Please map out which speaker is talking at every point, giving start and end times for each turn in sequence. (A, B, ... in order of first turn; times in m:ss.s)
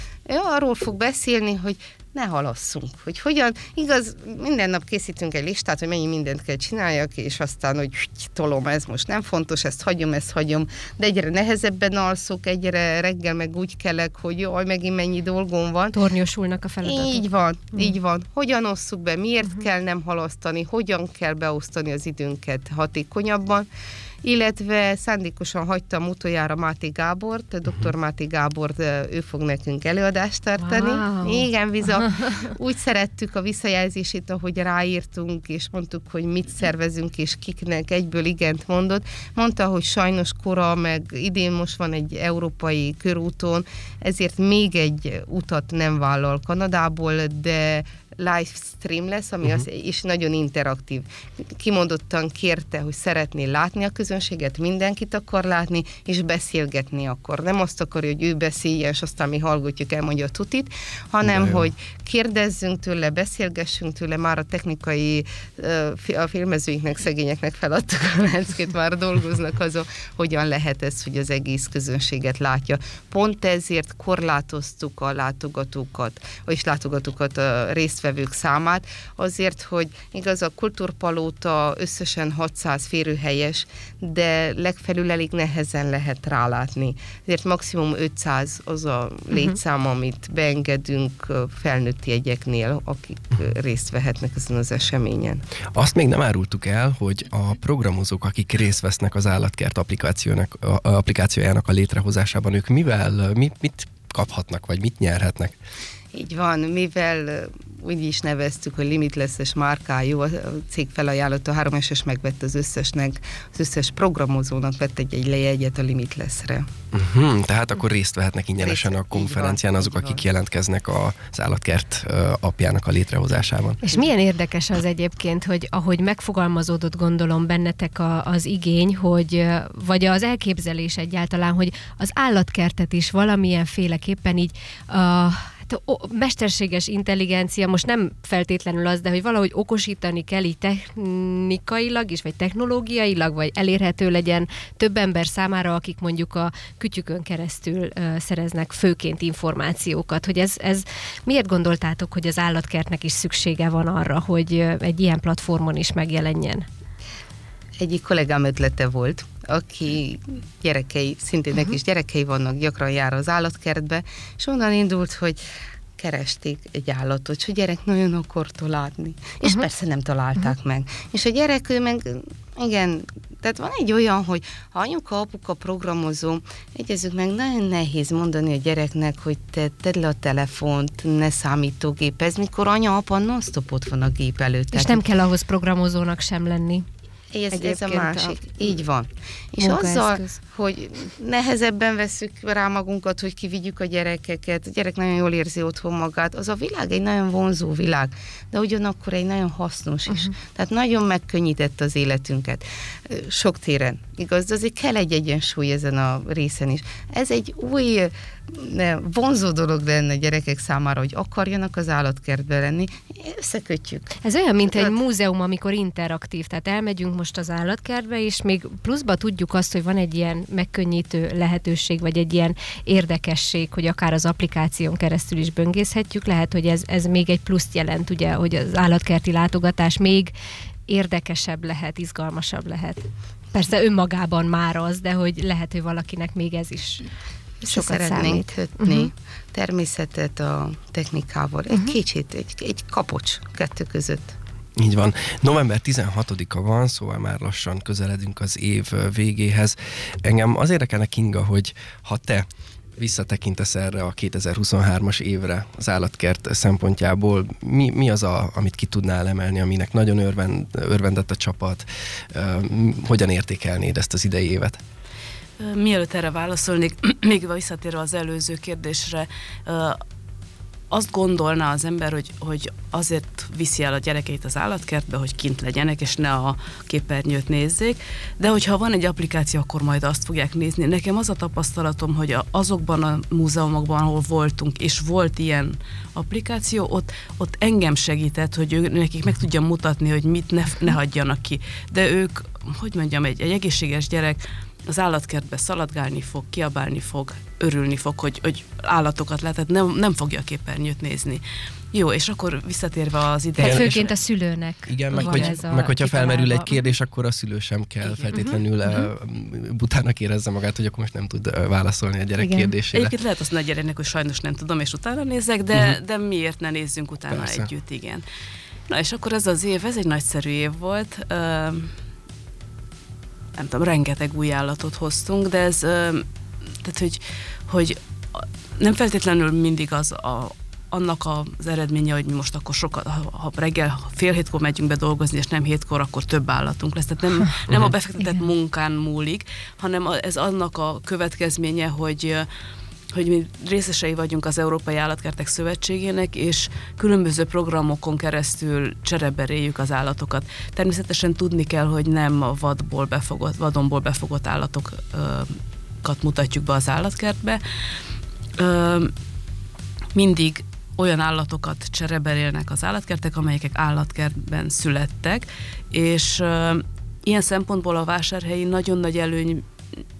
0:00.2-0:16.0 A
0:15.9-0:17.2 B
0:16.8-0:23.7 A
0:24.2-1:35.4 A
0:30.6-0:31.5 B
0:32.0-0:32.4 B
1:01.3-1:01.6 C
1:35.7-1:45.6 C
1:46.1-1:56.7 A
1:56.9-2:03.8 C
1:58.6-2:00.2 A
2:03.8-2:36.7 B
2:37.8-2:45.4 A
2:46.0-3:05.0 A
3:04.7-3:06.8 B
3:07.3-3:34.9 A
3:07.5-3:08.4 B
3:09.6-3:10.4 B
3:34.2-3:50.3 B
3:50.9-3:57.1 B
3:57.6-4:04.4 A
3:57.6-3:59.1 B
4:04.8-4:12.4 C
4:13.0-4:24.8 C
4:25.6-4:30.0 D
4:30.9-5:04.1 D
5:03.6-5:06.8 B
5:03.6-5:04.0 C
5:04.9-5:13.1 C
5:05.1-5:05.6 D
5:08.0-5:08.5 D
5:08.3-5:09.0 B
5:12.4-5:12.7 B
5:12.9-5:18.2 D
5:17.3-5:17.7 C
5:18.9-5:21.9 D
5:23.6-5:26.3 D
5:26.8-5:42.5 D
5:37.7-5:37.9 C
5:38.2-5:38.4 B
5:43.1-5:57.6 D
5:58.6-5:59.1 D
6:00.1-6:09.6 D